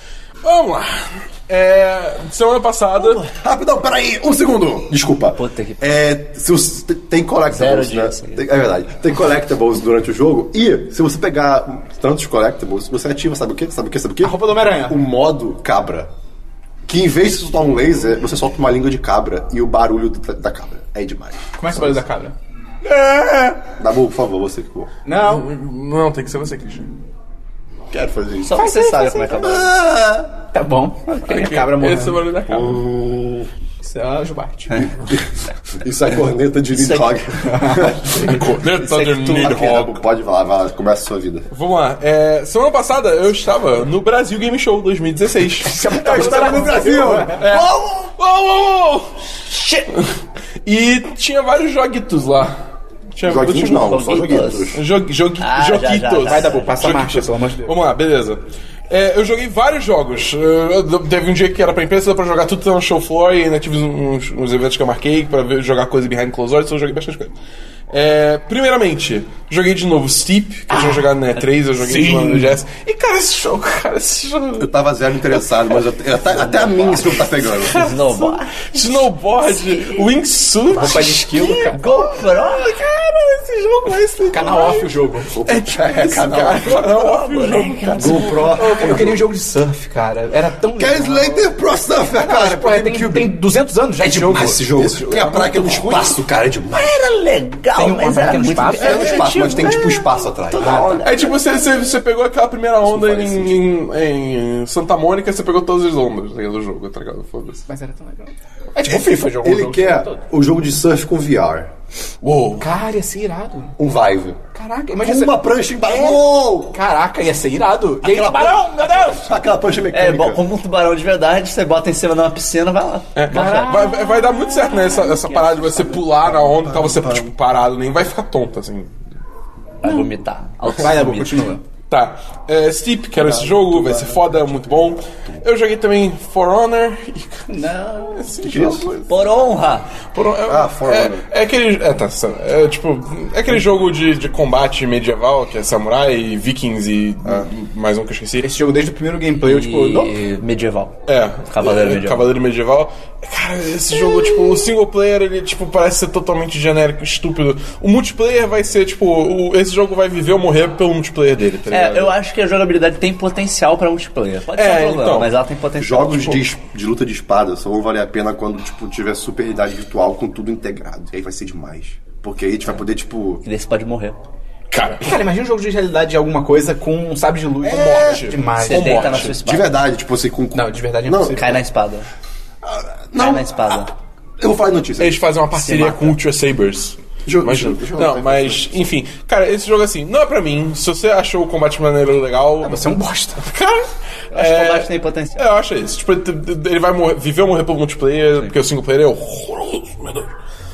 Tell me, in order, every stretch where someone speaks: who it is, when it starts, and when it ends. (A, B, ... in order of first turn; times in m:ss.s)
0:00.4-0:03.2 A
0:03.0-0:16.1 B
0:05.4-0:06.0 C
0:07.5-0:08.4 C
0:14.2-0:15.0 D
0:16.9-0:22.0 B
0:21.6-0:22.4 D
0:22.9-0:24.9 B
0:25.1-0:25.5 D
0:25.2-0:26.9 A
0:27.9-0:28.6 B
0:28.4-0:29.8 C
0:28.5-0:29.5 D
0:29.4-0:30.3 B
0:30.5-0:32.3 D
0:31.2-0:32.8 A
0:32.5-0:33.5 B
0:33.8-0:34.8 D
0:34.7-0:38.4 B
0:36.8-0:37.2 C
0:37.4-0:38.1 D
0:38.2-0:39.9 A
0:39.0-0:39.5 C
0:39.0-0:41.5 B
0:41.5-0:49.2 A
0:45.7-0:47.4 D
0:45.9-0:48.1 B
0:49.9-0:54.0 A
0:53.2-0:54.8 B
0:53.7-0:54.8 C
0:54.7-1:07.3 A
0:55.4-0:56.9 C
0:56.2-0:57.8 D
1:07.9-1:14.7 A
1:10.7-1:11.1 D
1:11.8-1:12.6 D
1:14.6-1:17.8 B
1:15.3-1:15.9 A
1:16.5-1:24.9 A
1:17.5-1:18.8 C
1:19.5-1:20.1 C
1:20.7-1:21.8 D
1:20.8-1:22.8 C
1:23.8-1:24.6 C
1:24.3-1:25.4 D
1:25.3-1:26.9 B
1:25.4-1:29.1 A
1:26.6-1:28.6 C
1:28.0-1:29.2 B
1:28.6-1:31.5 D
1:30.8-1:33.3 B
1:32.1-1:34.6 D
1:34.0-1:37.0 B
1:34.7-1:36.2 A
1:36.7-1:41.4 C
1:37.8-1:39.3 D
1:38.8-1:41.1 B
1:38.8-1:40.0 A
1:40.6-1:41.0 D
1:41.0-1:47.6 A
1:42.8-1:43.6 B
1:47.7-1:50.2 D
1:48.9-1:51.7 B
1:52.2-1:52.7 A
1:52.6-1:53.8 D
1:53.8-1:54.4 B
1:54.5-1:59.3 D
1:55.0-1:56.8 B
1:58.0-2:00.4 B
1:59.9-2:03.8 C
2:03.2-2:09.0 A
2:03.3-2:04.9 D
2:05.3-2:06.0 C
2:06.4-2:07.2 B
2:09.8-2:11.4 C
2:10.7-2:11.6 D
2:11.9-2:17.5 A
2:13.2-2:15.4 B
2:17.5-2:18.8 D
2:18.1-2:19.2 A
2:18.4-2:18.9 B
2:19.1-2:19.9 C
2:20.1-2:28.5 A
2:20.4-2:21.3 B
2:28.4-2:30.1 D
2:29.4-2:32.3 C
2:31.1-2:42.2 A
2:41.7-2:46.5 C
2:44.6-2:45.3 A
2:45.8-2:53.4 B
2:53.4-2:54.2 C
2:54.7-2:55.2 A
2:55.0-2:59.2 D
2:57.7-2:59.4 A
2:57.7-2:58.3 B
2:58.6-2:59.7 C
2:59.2-3:01.6 B
3:00.5-3:01.6 D
3:01.3-3:02.1 C
3:02.6-3:03.8 B
3:03.2-3:03.9 C
3:04.4-3:05.2 B
3:05.0-3:20.3 A
3:05.6-3:06.1 D
3:07.3-3:08.8 B
3:12.6-3:13.4 D
3:14.3-3:15.6 C